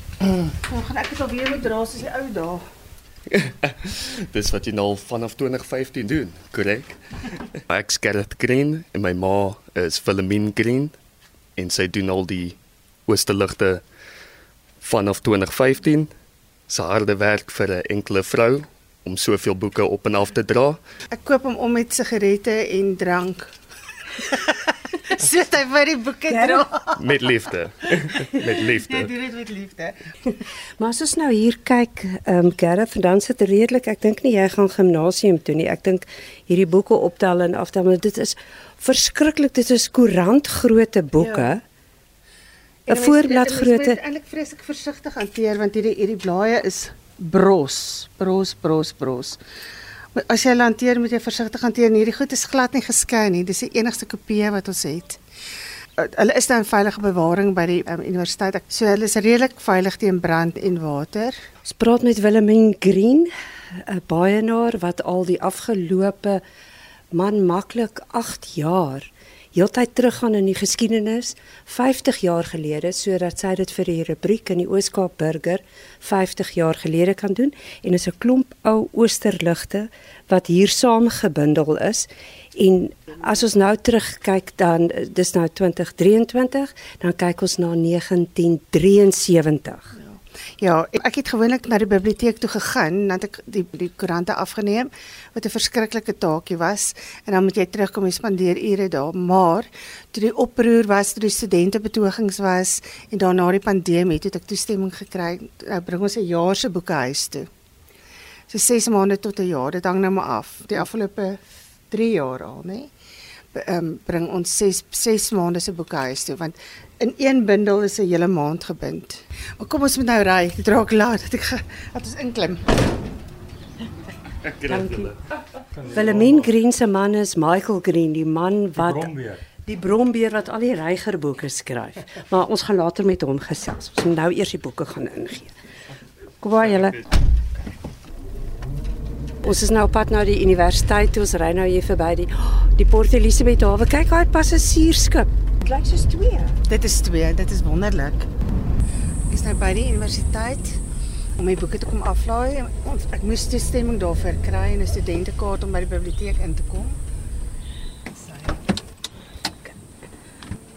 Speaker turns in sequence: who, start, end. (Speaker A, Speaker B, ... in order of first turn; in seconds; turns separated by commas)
Speaker A: 0.5-2.6, Speaker B: 3.3-7.0, Speaker B: 7.6-10.9, Speaker B: 11.6-13.8, Speaker B: 14.8-16.1, Speaker B: 16.7-20.8, Speaker A: 21.1-23.5, Speaker A: 24.1-27.2, Speaker C: 26.4-26.6, Speaker B: 27.0-29.1, Speaker A: 28.1-29.9, Speaker C: 30.8-41.6, Speaker A: 41.2-41.5, Speaker C: 42.9-44.0, Speaker A: 42.9-49.4, Speaker A: 50.1-55.2, Speaker A: 56.0-61.4, Speaker C: 61.6-66.4, Speaker C: 67.1-89.9, Speaker A: 90.0-107.5, Speaker A: 108.5-112.9, Speaker A: 113.5-122.6, Speaker B: 124.5-125.1, Speaker C: 124.7-125.1, Speaker C: 125.9-135.5, Speaker C: 136.4-137.0, Speaker C: 139.4-146.6, Speaker A: 146.7-148.3, Speaker A: 149.3-150.8, Speaker A: 151.4-157.0, Speaker A: 158.2-158.6